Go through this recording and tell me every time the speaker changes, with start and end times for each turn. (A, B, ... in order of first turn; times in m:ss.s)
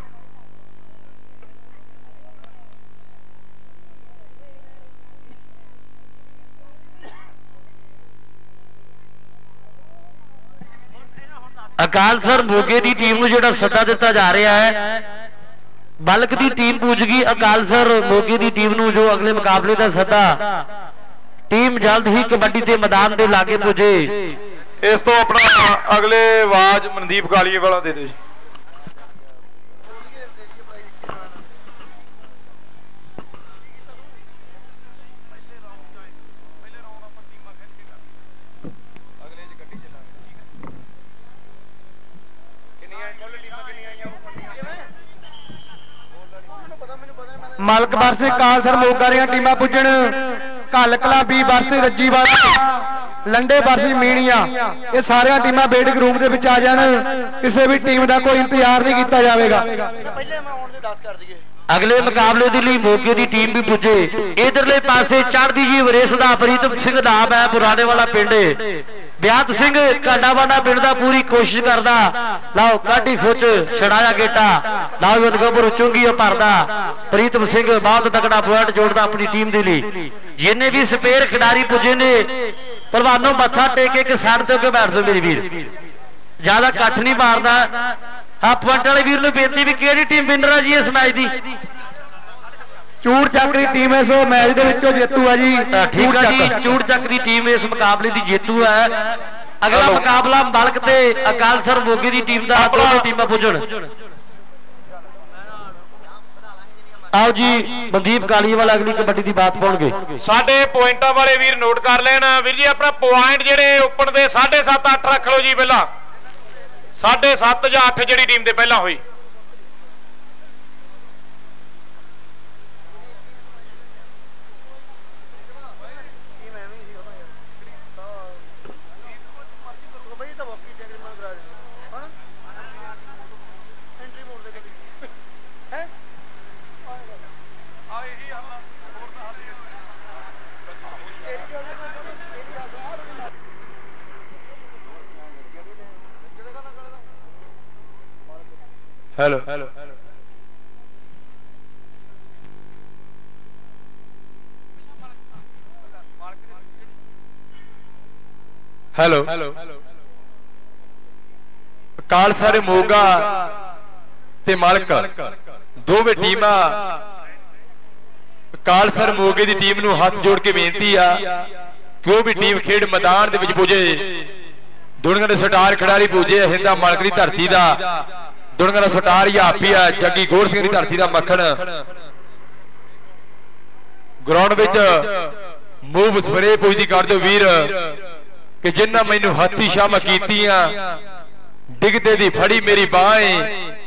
0:11.8-0:15.0 A
0:16.0-0:20.6 A
0:21.5-0:24.3 A
0:24.8-0:28.2 B
0:47.6-1:00.3 C
1:01.7-1:08.6 A
1:09.2-1:25.7 A
1:26.4-1:31.3 A
1:33.0-1:36.7 C
1:35.7-1:43.6 A
1:39.7-1:40.0 B
1:42.5-1:43.0 B
1:47.1-1:50.1 A
1:50.2-1:55.9 B
1:57.0-1:59.0 B
2:29.2-2:29.7 D
2:39.0-2:39.6 D
2:42.1-2:43.5 D
2:44.4-2:45.3 D
2:45.9-2:46.8 D
2:48.6-2:51.2 D
2:52.0-2:54.2 D
2:55.0-2:58.0 D
2:58.6-3:01.7 D
3:04.2-3:05.3 D
3:05.9-3:08.0 D
3:08.6-3:10.8 D
3:11.8-3:13.5 D